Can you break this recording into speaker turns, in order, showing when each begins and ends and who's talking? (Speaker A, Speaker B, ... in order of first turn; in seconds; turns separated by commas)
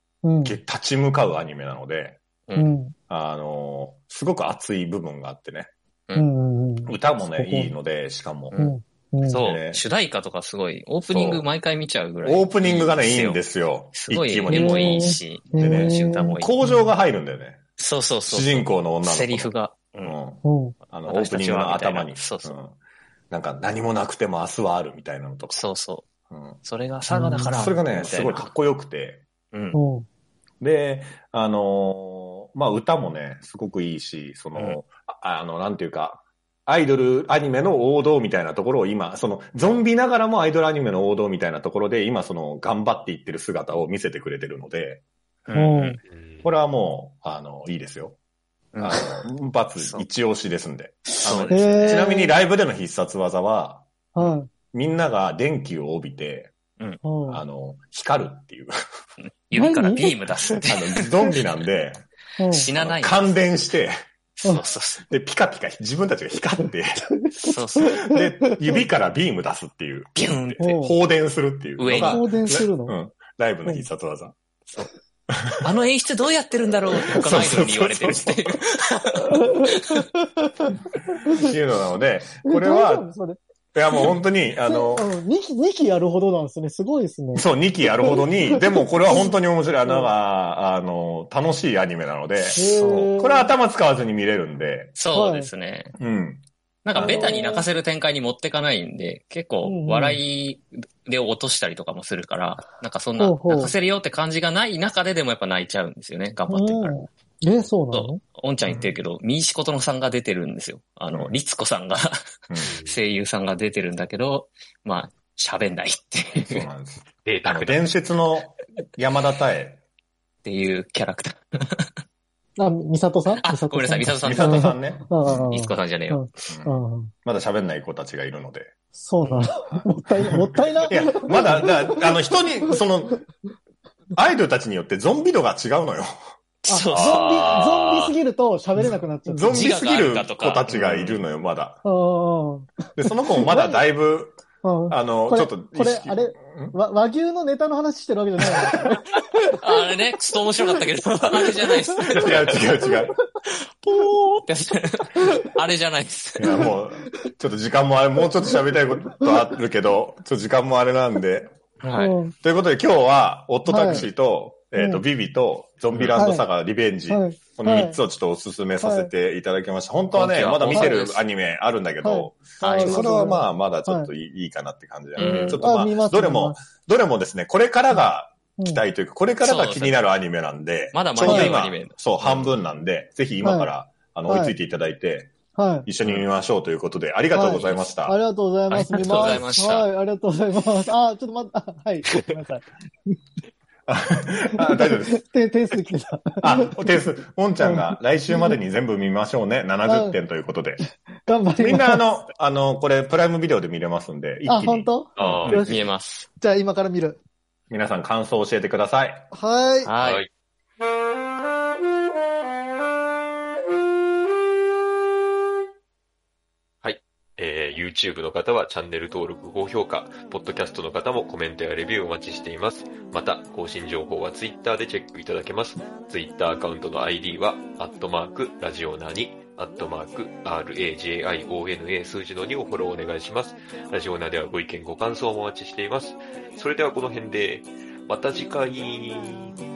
Speaker A: 0.2-0.6, Speaker B: 0.4-2.2, Speaker A: 2.5-2.9, Speaker B: 3.1-5.7, Speaker A: 6.1-7.7, Speaker B: 6.9-8.5, Speaker A: 8.5-9.4, Speaker C: 9.2-13.4, Speaker B: 9.3-9.8, Speaker B: 11.1-11.4, Speaker B: 12.2-17.6, Speaker C: 13.9-16.6, Speaker A: 14.5-16.7, Speaker C: 17.8-20.1, Speaker B: 18.3-19.5, Speaker B: 20.0-22.7, Speaker A: 20.4-20.8, Speaker C: 21.1-22.6, Speaker B: 23.3-25.6, Speaker C: 25.5-26.0, Speaker B: 26.3-26.6, Speaker C: 26.6-28.5, Speaker B: 27.1-29.2, Speaker A: 27.2-27.6, Speaker C: 29.5-29.8, Speaker A: 29.7-30.1, Speaker B: 30.6-45.0, Speaker C: 45.5-46.0, Speaker A: 45.5-46.0, Speaker D: 46.1-46.5, Speaker B: 46.4-48.1, Speaker C: 48.7-49.1, Speaker B: 48.8-53.8, Speaker C: 51.2-52.1, Speaker A: 51.5-52.4, Speaker A: 54.1-54.5, Speaker B: 54.7-56.5, Speaker A: 57.0-57.4, Speaker B: 57.3-58.8, Speaker C: 59.5-61.1, Speaker A: 59.5-60.6, Speaker B: 60.7-62.0, Speaker A: 62.4-62.7, Speaker C: 62.5-63.3, Speaker B: 62.7-63.9, Speaker C: 64.4-65.0, Speaker B: 65.1-67.1, Speaker C: 67.4-68.0, Speaker A: 67.4-68.8, Speaker B: 67.8-74.3, Speaker C: 70.2-70.7, Speaker A: 70.6-70.9, Speaker C: 71.8-72.6, Speaker A: 71.9-73.0, Speaker B: 75.3-75.6, Speaker C: 75.6-80.0, Speaker B: 76.9-78.6, Speaker A: 79.3-81.5, Speaker B: 81.3-83.1, Speaker A: 82.4-83.4, Speaker B: 83.7-85.1, Speaker A: 83.9-87.5, Speaker B: 87.3-95.0, Speaker A: 88.0-89.3, Speaker C: 92.5-93.1, Speaker A: 92.5-93.5, Speaker C: 95.0-95.9, Speaker A: 95.1-95.5, Speaker B: 96.0-96.4, Speaker C: 96.8-107.0, Speaker B: 97.0-97.4, Speaker A: 97.0-97.6, Speaker A: 99.6-100.2, Speaker A: 103.2-103.7, Speaker A: 106.5-108.2, Speaker C: 107.9-112.3, Speaker B: 108.6-108.9, Speaker B: 112.5-112.8, Speaker D: 112.6-113.0, Speaker C: 112.8-116.7, Speaker B: 116.3-119.8, Speaker D: 117.2-117.9, Speaker C: 120.4-121.9, Speaker A: 122.6-127.1, Speaker C: 123.4-126.3, Speaker B: 124.2-125.5, Speaker B: 126.5-128.7, Speaker A: 128.9-132.8, Speaker B: 129.6-133.2, Speaker B: 134.1-136.2, Speaker C: 136.6-137.8, Speaker A: 136.7-139.7, Speaker D: 136.9-138.1, Speaker B: 139.3-141.8, Speaker C: 139.4-141.2, Speaker A: 141.8-142.8, Speaker B: 143.0-144.4, Speaker A: 143.4-143.8, Speaker A: 144.6-149.0, Speaker B: 144.9-146.7, Speaker B: 148.6-149.0, Speaker C: 149.6-152.7, Speaker A: 151.9-152.2, Speaker B: 152.0-153.2, Speaker C: 153.4-156.7, Speaker B: 156.4-161.5, Speaker C: 161.8-162.1, Speaker A: 162.0-162.3, Speaker B: 162.3-185.3, Speaker A: 163.7-164.1, Speaker A: 164.8-165.0, Speaker A: 166.2-166.5, Speaker A: 167.1-168.0, Speaker A: 168.8-169.1, Speaker C: 170.1-171.2, Speaker A: 170.7-171.0, Speaker A: 172.0-174.1, Speaker C: 172.6-173.4, Speaker C: 175.2-175.6, Speaker A: 175.2-176.6, Speaker C: 179.4-179.9, Speaker C: 180.9-182.4, Speaker A: 181.2-181.5, Speaker A: 183.4-183.7, Speaker A: 184.3-184.6, Speaker A: 185.5-185.9, Speaker B: 185.8-188.2, Speaker A: 187.3-193.2, Speaker C: 188.7-189.9, Speaker B: 193.9-195.2, Speaker A: 194.5-196.9, Speaker B: 196.4-200.8, Speaker A: 197.6-198.6, Speaker A: 199.9-200.2, Speaker A: 201.2-202.0, Speaker B: 201.6-204.9, Speaker A: 204.5-205.8, Speaker D: 205.2-205.7, Speaker C: 205.2-206.3, Speaker A: 206.4-207.2, Speaker B: 207.7-209.3, Speaker A: 209.3-209.9, Speaker C: 209.8-210.2, Speaker D: 210.0-210.3, Speaker D: 216.8-239.5